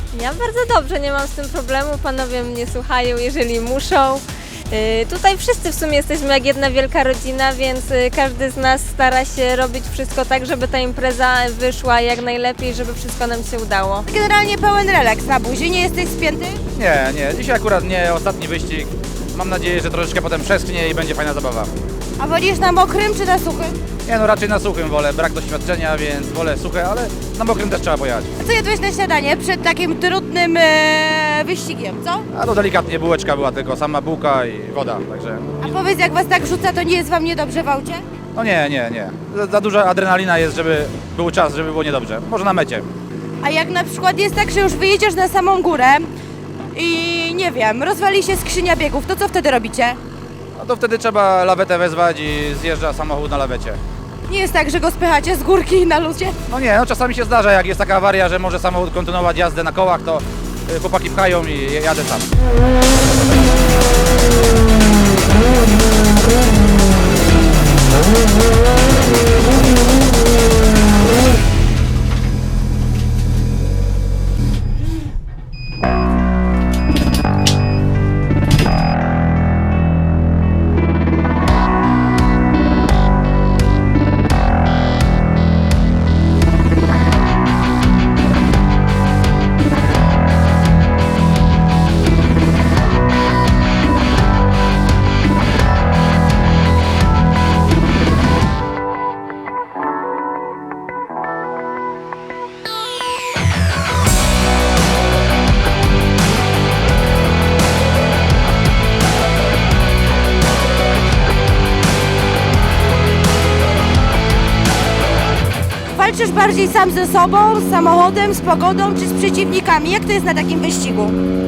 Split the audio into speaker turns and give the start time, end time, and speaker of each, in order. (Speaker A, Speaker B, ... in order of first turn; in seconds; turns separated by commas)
Speaker A: 0.1-14.0, Speaker B: 14.1-16.6, Speaker C: 16.8-21.7, Speaker B: 22.2-23.8, Speaker C: 24.1-28.3, Speaker B: 28.4-32.2, Speaker C: 32.3-35.6, Speaker B: 35.6-38.0, Speaker C: 38.3-42.9, Speaker B: 43.4-46.1, Speaker B: 46.7-50.0, Speaker C: 50.6-53.8, Speaker B: 54.3-56.4, Speaker C: 56.5-62.3, Speaker B: 115.9-121.2